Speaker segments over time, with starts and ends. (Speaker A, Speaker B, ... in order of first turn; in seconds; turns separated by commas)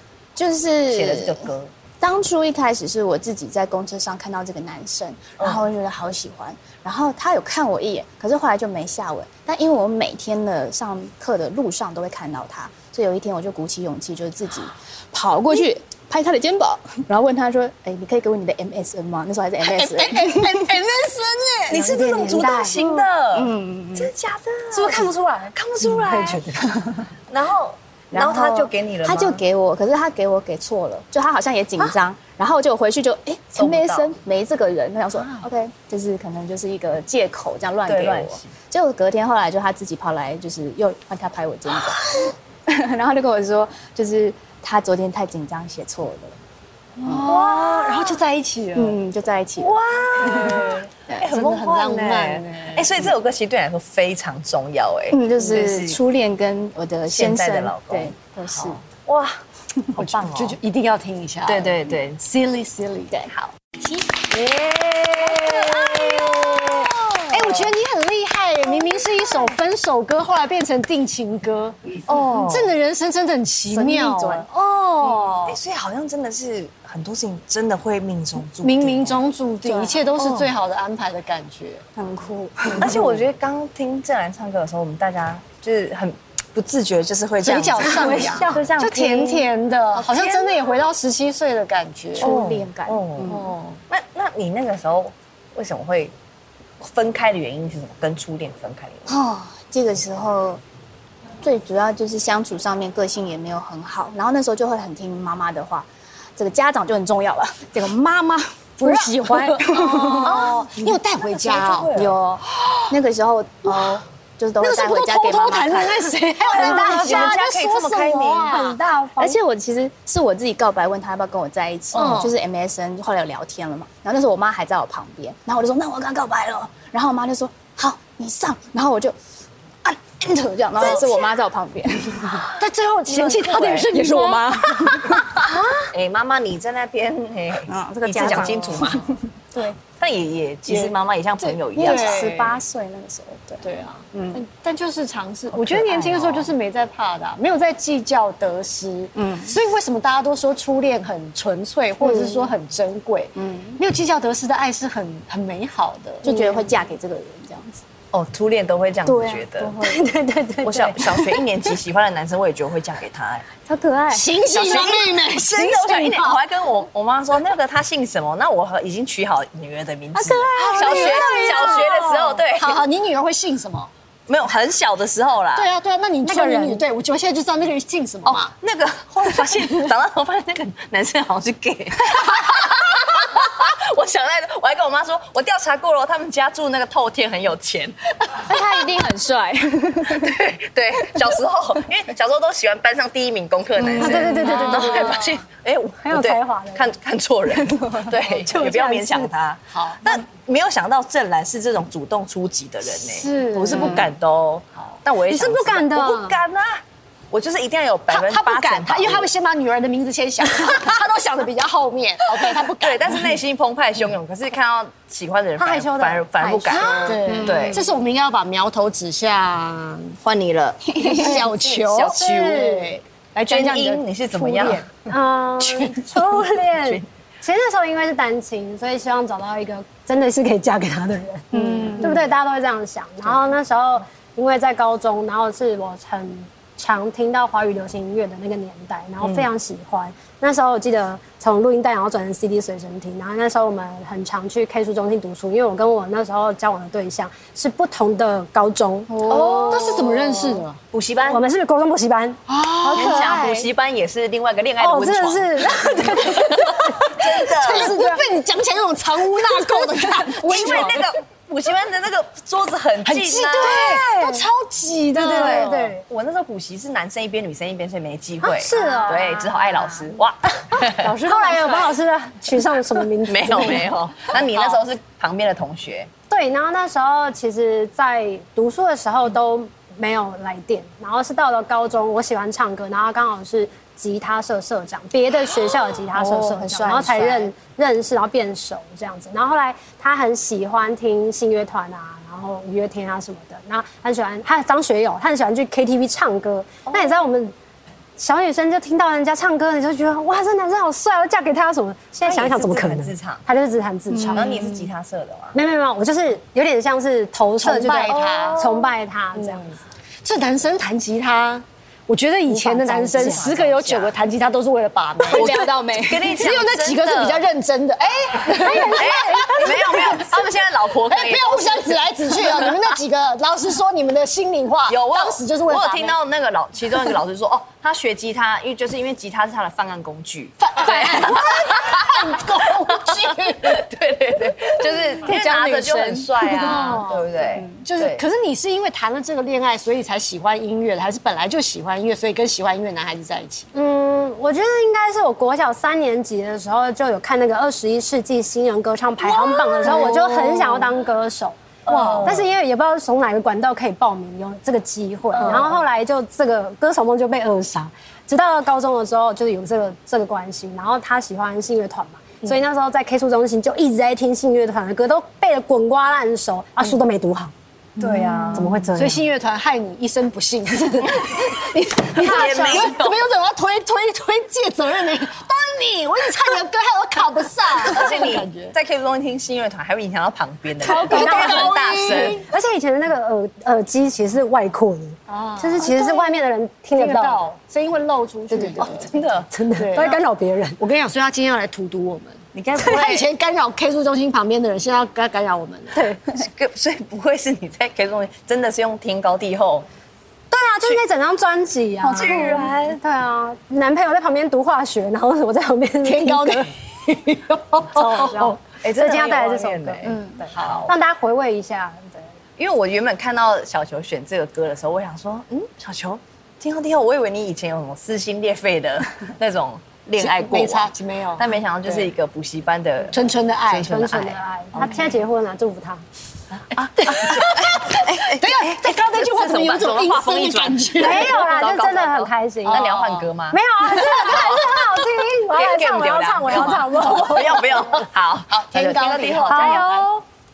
Speaker A: 0.3-1.5, Speaker B: 0.9-1.7, Speaker A: 2.0-20.8, Speaker B: 5.4-5.6, Speaker C: 19.6-21.8, Speaker B: 21.7-26.4, Speaker D: 21.7-22.8, Speaker A: 22.8-24.1, Speaker D: 24.7-26.7, Speaker B: 27.3-29.4, Speaker A: 28.1-46.4, Speaker B: 33.5-34.1, Speaker B: 37.9-38.5, Speaker C: 47.0-49.0, Speaker A: 47.0-47.5, Speaker B: 47.3-48.1, Speaker A: 48.7-51.3, Speaker B: 49.6-56.0, Speaker C: 50.3-50.8, Speaker C: 51.3-53.1, Speaker A: 55.1-58.8, Speaker B: 57.1-59.4, Speaker B: 59.9-60.6, Speaker C: 60.0-63.2, Speaker B: 61.5-62.2, Speaker C: 64.1-75.6, Speaker B: 65.5-66.0, Speaker B: 72.1-72.7, Speaker A: 73.7-74.5, Speaker B: 75.0-79.2, Speaker C: 78.6-81.8, Speaker A: 79.7-80.0, Speaker B: 80.2-80.5, Speaker A: 82.0-83.2, Speaker C: 82.6-83.0, Speaker B: 82.8-90.6, Speaker C: 87.4-92.3, Speaker D: 87.9-88.6, Speaker A: 92.2-93.4, Speaker B: 92.2-96.1, Speaker C: 93.2-93.8, Speaker B: 96.8-99.1, Speaker A: 99.1-100.6, Speaker A: 101.4-108.9, Speaker C: 108.8-112.0, Speaker D: 108.8-110.2, Speaker A: 109.6-110.5, Speaker B: 110.2-112.2, Speaker A: 111.9-116.1, Speaker C: 112.5-112.9, Speaker C: 113.7-114.0, Speaker C: 114.6-118.8, Speaker D: 116.5-117.3, Speaker B: 116.5-118.8, Speaker D: 118.5-119.4, Speaker A: 119.2-129.2, Speaker C: 121.9-122.3, Speaker A: 129.8-132.5, Speaker B: 130.8-131.1, Speaker C: 132.6-135.2, Speaker B: 133.1-134.3, Speaker A: 134.8-135.6, Speaker B: 135.9-139.1, Speaker A: 137.7-139.7, Speaker C: 138.2-138.9, Speaker B: 139.8-142.3, Speaker C: 140.7-142.6, Speaker A: 141.7-144.4, Speaker C: 143.6-156.2, Speaker B: 145.5-146.5, Speaker A: 149.2-149.5, Speaker D: 152.0-152.5, Speaker A: 153.3-153.8, Speaker A: 156.2-157.8, Speaker D: 156.2-156.7, Speaker B: 158.1-159.8, Speaker A: 159.1-160.1, Speaker D: 159.8-161.4, Speaker B: 160.6-163.4, Speaker A: 163.7-164.3, Speaker C: 164.1-166.4, Speaker B: 164.5-172.8, Speaker A: 170.2-171.1, Speaker D: 170.5-172.1, Speaker C: 170.5-173.9, Speaker B: 174.3-175.7, Speaker C: 175.5-178.5, Speaker D: 176.2-176.8, Speaker B: 178.3-188.5, Speaker A: 188.4-190.4, Speaker B: 190.1-209.3, Speaker A: 193.8-194.4, Speaker D: 194.0-195.3, Speaker C: 194.3-195.2, Speaker D: 196.0-196.9, Speaker D: 198.4-199.3, Speaker C: 199.7-200.0, Speaker C: 202.9-204.1, Speaker A: 203.7-204.0, Speaker D: 205.3-206.4, Speaker C: 208.1-213.3, Speaker B: 212.8-217.8, Speaker D: 215.6-217.6, Speaker A: 216.4-217.8, Speaker C: 216.7-220.2, Speaker B: 220.2-222.3, Speaker A: 220.9-221.3, Speaker C: 221.0-224.9, Speaker D: 222.0-222.9, Speaker B: 223.5-224.8, Speaker D: 225.1-249.7, Speaker C: 225.6-226.0, Speaker B: 226.1-227.0, Speaker A: 231.5-232.1, Speaker A: 249.1-250.2, Speaker C: 249.3-250.8, Speaker B: 249.5-249.8, Speaker B: 250.9-251.4, Speaker D: 251.3-253.6, Speaker C: 252.5-253.5, Speaker B: 252.8-258.0, Speaker D: 254.8-258.2, Speaker C: 256.8-261.1, Speaker B: 260.1-264.0, Speaker D: 260.5-260.9, Speaker C: 263.0-265.8, Speaker D: 263.6-264.4, Speaker D: 265.1-266.0, Speaker B: 265.2-271.1, Speaker D: 268.4-270.1, Speaker D: 270.7-274.0, Speaker C: 270.9-271.9, Speaker B: 273.2-276.1, Speaker C: 274.3-274.8, Speaker D: 276.3-297.5, Speaker A: 286.1-287.5, Speaker B: 296.9-297.1, Speaker D: 298.2-304.7, Speaker B: 302.2-303.4, Speaker A: 304.1-304.8, Speaker B: 304.3-305.5, Speaker D: 305.5-309.7, Speaker C: 307.6-308.6, Speaker B: 308.1-308.9, Speaker C: 309.4-315.7, Speaker D: 312.7-313.5, Speaker B: 312.8-314.1, Speaker B: 315.3-317.4, Speaker A: 315.3-316.3, Speaker C: 316.2-326.2, Speaker D: 318.4-320.1, Speaker B: 318.7-322.7, Speaker B: 324.9-338.2, Speaker C: 330.6-333.8, Speaker C: 334.7-343.7, Speaker D: 343.7-351.6, Speaker C: 349.6-350.8, Speaker B: 349.8-350.2, Speaker B: 351.9-352.4, Speaker C: 351.9-352.4, Speaker D: 352.2-367.5, Speaker C: 355.4-355.7, Speaker B: 368.0-368.8, Speaker D: 368.2-369.2, Speaker C: 368.9-378.7, Speaker B: 371.1-373.2, Speaker D: 372.1-373.0, Speaker B: 377.8-382.4, Speaker D: 380.8-387.5, Speaker C: 380.8-382.4, Speaker C: 385.3-386.4, Speaker C: 386.9-389.1, Speaker D: 388.5-390.8, Speaker B: 388.8-389.5, Speaker C: 389.8-390.2, Speaker C: 390.8-396.0, Speaker B: 392.5-393.2, Speaker D: 395.9-396.2, Speaker B: 396.3-399.9, Speaker D: 400.5-406.7, Speaker B: 402.0-403.0, Speaker C: 406.0-408.5, Speaker D: 407.9-412.3, Speaker B: 408.0-410.2, Speaker A: 410.0-410.4, Speaker C: 410.5-410.9, Speaker B: 412.6-425.0, Speaker C: 420.2-422.1, Speaker C: 423.1-424.1, Speaker D: 423.8-426.0, Speaker B: 426.7-440.1, Speaker C: 427.0-431.4, Speaker D: 431.0-432.9, Speaker C: 432.7-433.3, Speaker D: 433.5-437.9, Speaker C: 438.5-440.0, Speaker D: 439.5-440.2